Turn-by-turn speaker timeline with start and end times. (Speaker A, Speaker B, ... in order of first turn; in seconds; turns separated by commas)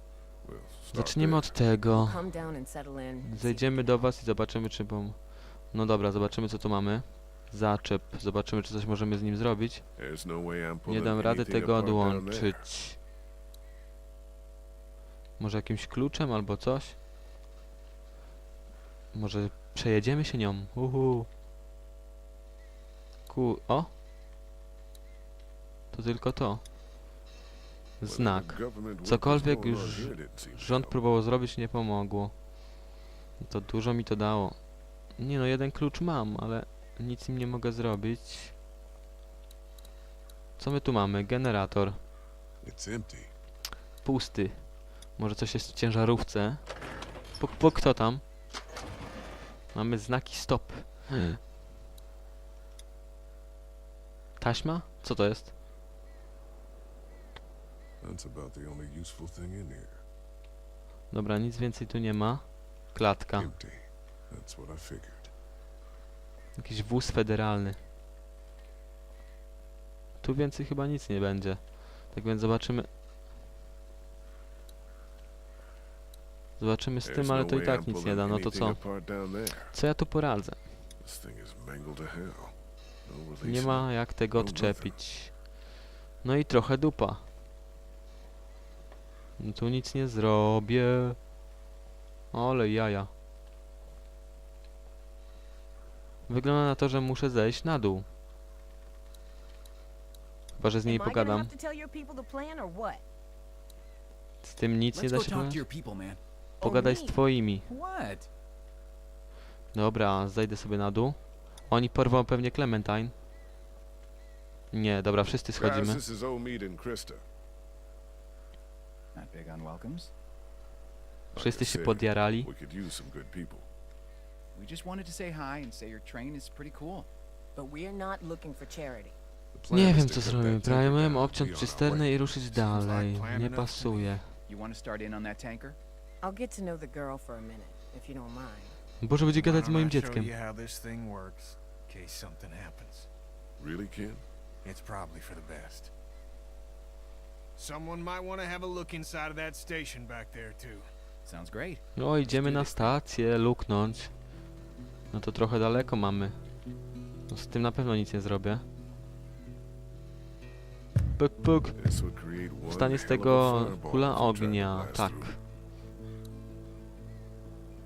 Speaker A: 0.4-1.6, Speaker B: 0.9-2.2, Speaker C: 1.9-4.0, Speaker B: 3.2-9.8, Speaker A: 9.9-12.7, Speaker B: 10.8-13.0, Speaker B: 15.4-17.0, Speaker B: 19.1-21.3, Speaker B: 23.3-23.9, Speaker B: 25.9-26.6, Speaker B: 28.0-32.3, Speaker A: 28.0-31.0, Speaker B: 33.4-34.6, Speaker B: 35.2-38.5, Speaker B: 40.6-42.0, Speaker A: 42.6-43.3, Speaker B: 44.0-46.6, Speaker B: 47.4-48.2, Speaker B: 49.7-51.4, Speaker B: 54.4-55.5, Speaker A: 58.0-60.0, Speaker B: 61.1-63.5, Speaker A: 63.3-65.3, Speaker B: 66.6-67.8, Speaker B: 70.2-72.9, Speaker B: 76.6-79.0, Speaker A: 77.0-79.8, Speaker B: 79.7-80.6, Speaker A: 81.0-85.0, Speaker B: 83.4-85.3, Speaker B: 86.2-87.3, Speaker B: 89.4-91.2, Speaker B: 92.3-93.1, Speaker B: 96.3-98.0, Speaker B: 100.5-101.5, Speaker C: 100.8-103.0, Speaker B: 104.4-105.6, Speaker D: 104.9-106.2, Speaker C: 106.6-107.2, Speaker B: 106.6-107.7, Speaker D: 107.7-108.3, Speaker B: 109.7-113.1, Speaker B: 114.7-116.0, Speaker A: 115.5-117.2, Speaker D: 119.1-120.1, Speaker A: 121.3-123.7, Speaker B: 121.3-122.5, Speaker D: 124.5-127.1, Speaker C: 127.5-129.2, Speaker A: 129.5-132.2, Speaker B: 129.7-134.3, Speaker E: 132.5-134.2, Speaker D: 134.5-135.8, Speaker C: 136.2-138.8, Speaker B: 139.0-140.3, Speaker E: 139.3-143.1, Speaker A: 143.6-144.2, Speaker E: 144.6-145.9, Speaker E: 147.6-150.9, Speaker D: 151.2-151.8, Speaker B: 151.9-154.1, Speaker A: 152.2-153.0, Speaker B: 155.1-156.4, Speaker B: 157.3-158.6, Speaker B: 161.1-161.8, Speaker A: 161.8-165.3, Speaker B: 162.7-165.4